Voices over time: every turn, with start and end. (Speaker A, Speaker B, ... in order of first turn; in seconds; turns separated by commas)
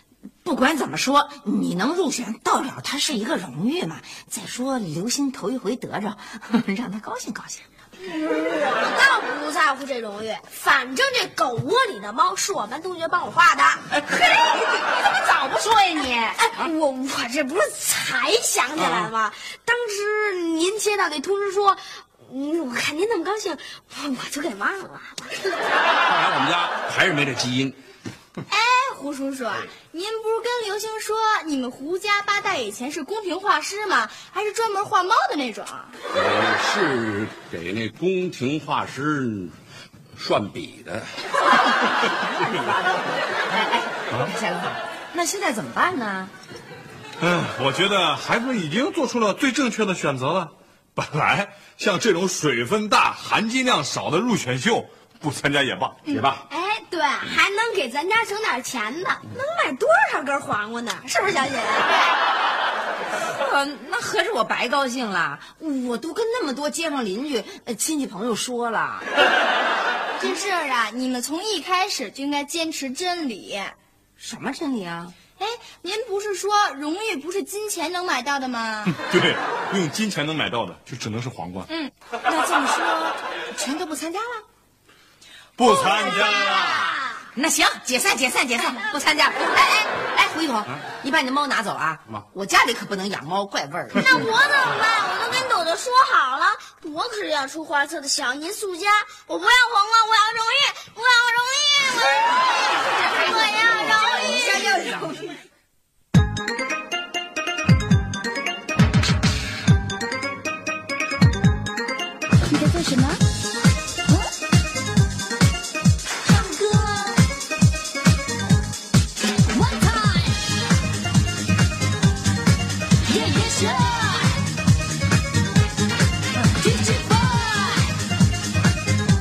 Speaker A: 0.4-7.7, Speaker B: 8.0-13.8, Speaker A: 14.1-16.3, Speaker B: 16.0-25.5, Speaker C: 18.8-19.1, Speaker C: 26.1-27.8, Speaker D: 28.5-35.9, Speaker C: 36.1-39.5, Speaker C: 40.1-41.1, Speaker A: 41.5-46.3, Speaker E: 47.2-56.0, Speaker C: 56.0-56.4, Speaker B: 56.5-61.9, Speaker A: 63.1-69.0, Speaker D: 70.2-73.8, Speaker A: 74.2-75.1, Speaker D: 75.4-79.0, Speaker E: 79.0-81.7, Speaker A: 82.2-84.4, Speaker E: 85.6-87.0, Speaker B: 86.2-86.5, Speaker A: 87.3-94.2, Speaker B: 94.0-105.2, Speaker A: 103.4-105.2, Speaker F: 112.6-113.2, Speaker F: 116.2-117.2, Speaker F: 119.5-120.3, Speaker F: 123.0-124.4, Speaker F: 126.6-127.9